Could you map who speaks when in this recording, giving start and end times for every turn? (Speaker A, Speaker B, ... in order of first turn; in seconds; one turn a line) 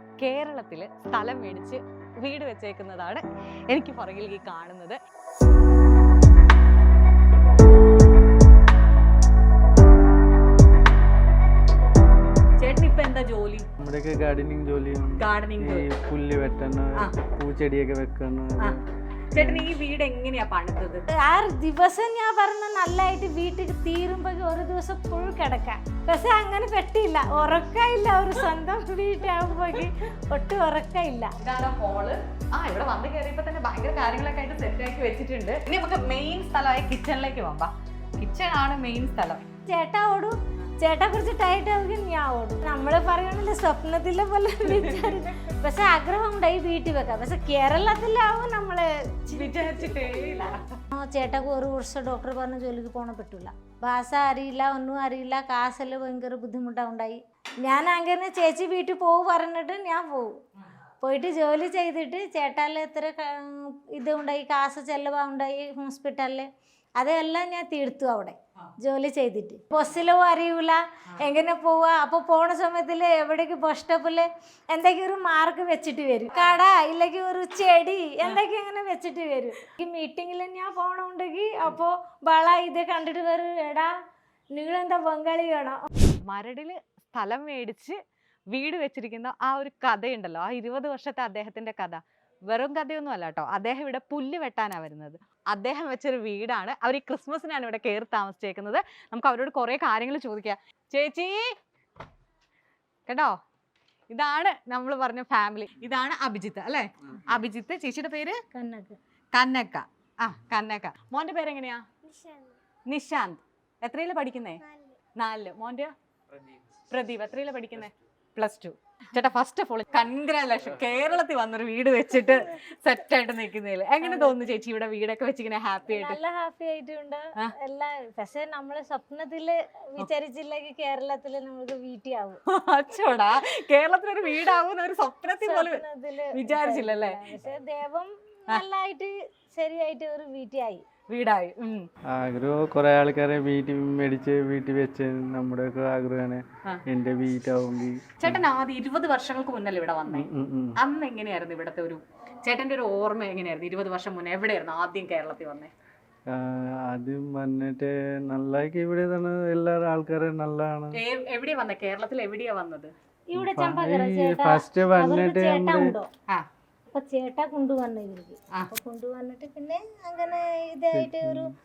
Speaker A: 0.2-5.0
Speaker A: 12.6-13.7
Speaker B: 13.8-18.8
Speaker A: 15.2-15.9
Speaker A: 19.3-21.1
Speaker B: 19.4-19.7
Speaker C: 21.1-31.3
Speaker A: 31.4-39.4
Speaker C: 39.7-60.3
Speaker A: 44.6-45.3
Speaker A: 49.3-50.8
Speaker C: 61.0-83.9
Speaker A: 76.3-76.6
Speaker C: 84.5-85.8
Speaker A: 86.2-101.5
Speaker A: 103.1-103.4
Speaker A: 104.1-108.4
Speaker C: 108.5-109.0
Speaker A: 109.3-111.8
Speaker C: 112.1-112.4
Speaker A: 112.9-114.6
Speaker A: 115.2-115.9
Speaker A: 116.9-126.2
Speaker C: 124.0-124.4
Speaker C: 125.9-132.4
Speaker A: 132.5-137.2
Speaker C: 135.4-140.8
Speaker A: 141.1-141.9
Speaker B: 142.1-148.4
Speaker A: 148.2-155.7
Speaker B: 150.1-150.8
Speaker B: 156.3-161.0
Speaker A: 160.9-162.9
Speaker C: 163.3-166.1
Speaker B: 163.3-165.9
Speaker C: 166.9-171.5
Speaker B: 170.9-171.5